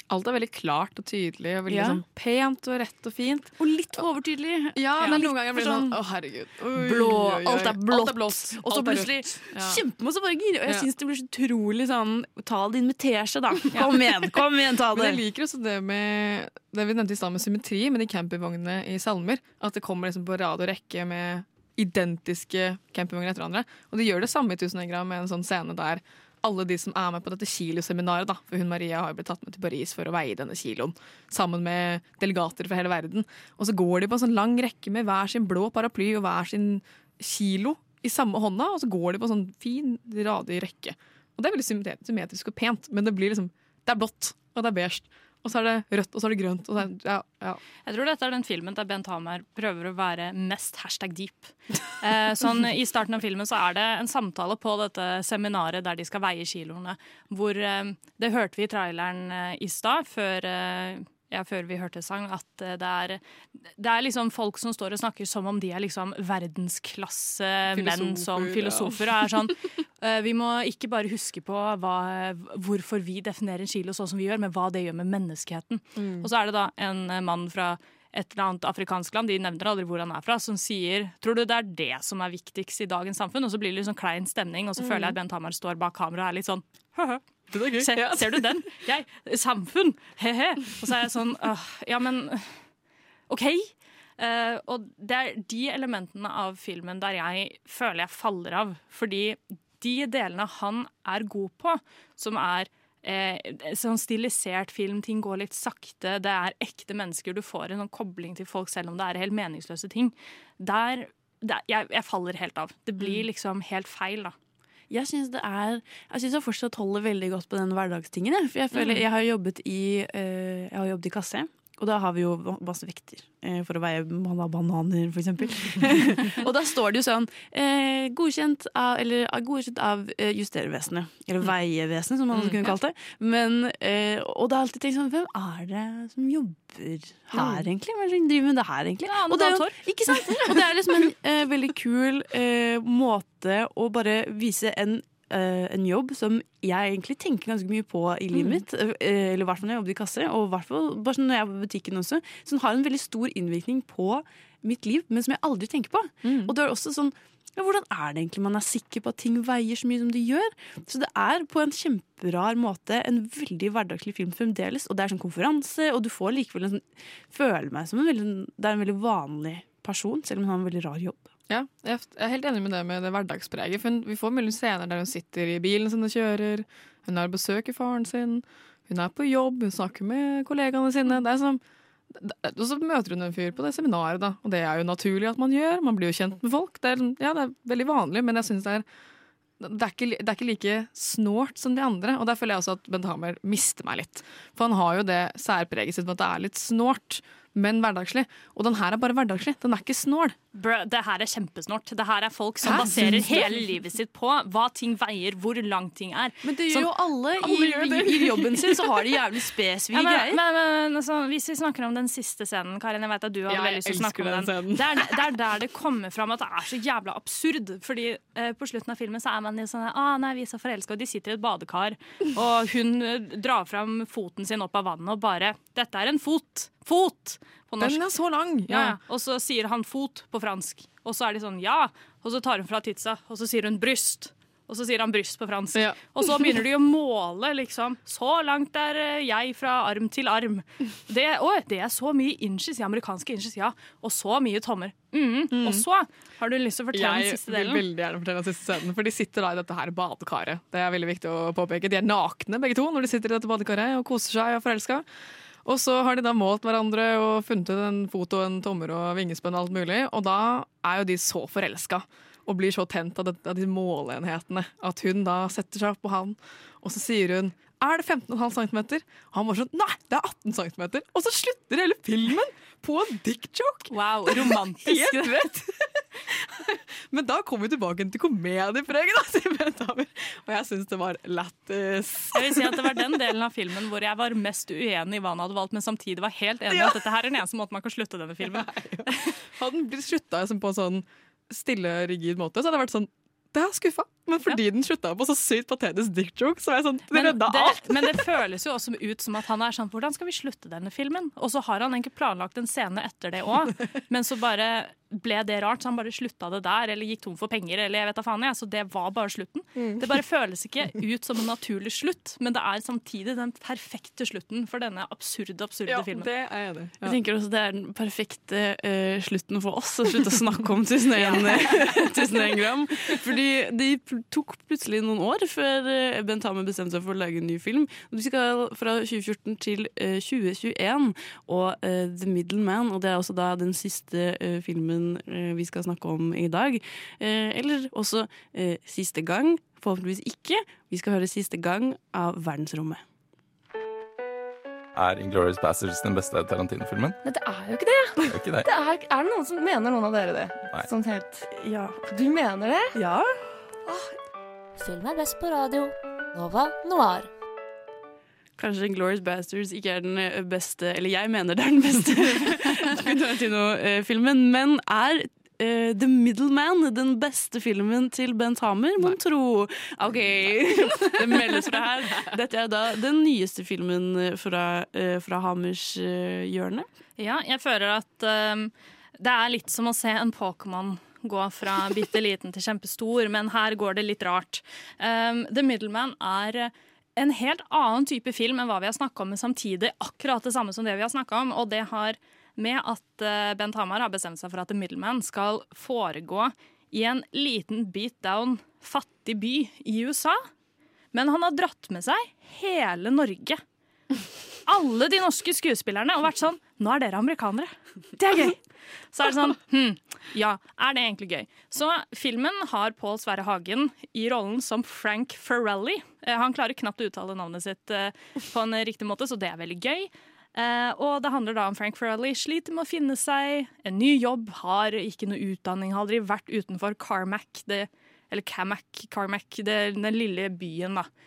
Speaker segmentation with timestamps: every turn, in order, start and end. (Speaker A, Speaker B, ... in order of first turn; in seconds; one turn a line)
Speaker A: 0.1-3.5
Speaker B: 1.7-2.0
Speaker B: 3.6-6.0
Speaker A: 4.8-9.8
Speaker B: 6.7-15.2
Speaker A: 14.9-47.6
Speaker C: 47.9-63.2
Speaker C: 63.8-92.5
Speaker A: 67.7-69.5
Speaker A: 76.0-76.3
Speaker A: 84.8-85.2
Speaker A: 87.5-88.5
Speaker C: 93.3-114.3
Speaker B: 114.9-171.3
Speaker A: 132.3-132.7
Speaker A: 137.3-137.6
Speaker C: 139.1-139.8
Speaker A: 156.2-156.5
Speaker A: 171.5-181.6
Speaker A: 182.1-188.8
Speaker A: 189.6-200.4
Speaker C: 200.6-206.9
Speaker A: 202.7-203.5
Speaker B: 202.7-203.4
Speaker B: 206.4-210.4
Speaker A: 207.4-209.1
Speaker C: 209.9-228.0
Speaker A: 213.5-215.2
Speaker A: 227.8-229.0
Speaker C: 228.7-247.8
Speaker A: 235.7-236.6
Speaker A: 245.5-245.8
Speaker A: 246.9-255.1
Speaker A: 255.6-283.2
Speaker C: 273.9-275.3
Speaker C: 282.3-289.2
Speaker A: 286.7-287.0
Speaker A: 288.4-298.2
Speaker C: 297.1-316.3
Speaker A: 309.8-310.0
Speaker A: 315.9-317.2
Speaker B: 317.0-343.0
Speaker C: 321.2-321.9
Speaker D: 344.9-347.2
Speaker E: 347.2-351.5
Speaker D: 348.3-348.7
Speaker B: 351.5-352.1
Speaker E: 352.1-352.9
Speaker B: 352.9-353.3
Speaker F: 354.8-357.3
Speaker B: 358.6-376.9
Speaker C: 377.2-400.4
Speaker C: 401.1-403.6
Speaker C: 404.7-408.6
Speaker C: 409.1-431.1